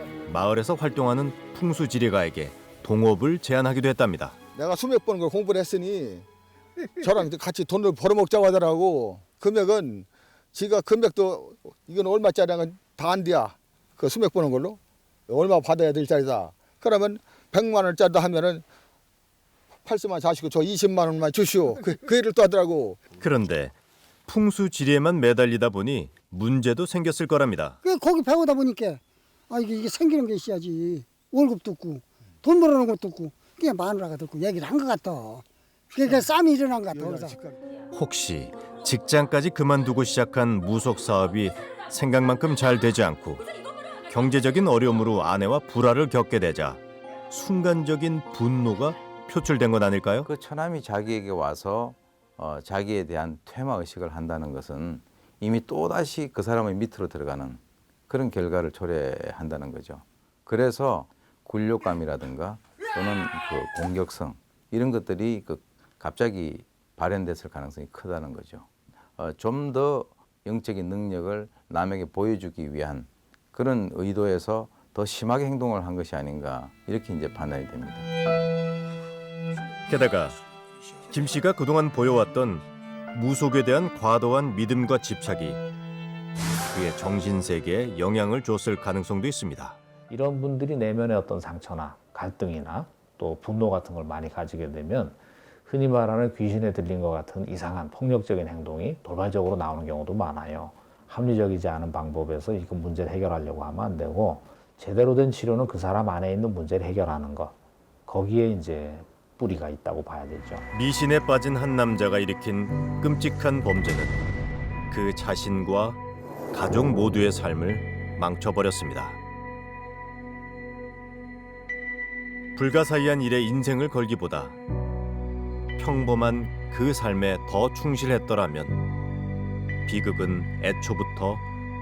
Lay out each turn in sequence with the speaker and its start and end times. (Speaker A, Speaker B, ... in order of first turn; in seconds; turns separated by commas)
Speaker A: 0.3-4.4, Speaker B: 4.5-6.2, Speaker B: 7.0-18.6, Speaker B: 19.9-23.1, Speaker A: 23.2-23.7, Speaker A: 24.3-27.8, Speaker C: 27.8-37.4, Speaker B: 37.0-37.3, Speaker A: 37.9-43.5, Speaker A: 44.1-50.3, Speaker D: 50.2-78.1, Speaker A: 79.9-80.4, Speaker A: 81.1-85.6, Speaker A: 86.7-89.8, Speaker E: 90.1-107.5, Speaker E: 108.1-110.7, Speaker A: 110.7-114.2, Speaker A: 114.9-116.0, Speaker A: 116.5-119.2, Speaker A: 122.6-124.6, Speaker A: 125.8-128.8, Speaker A: 129.9-131.4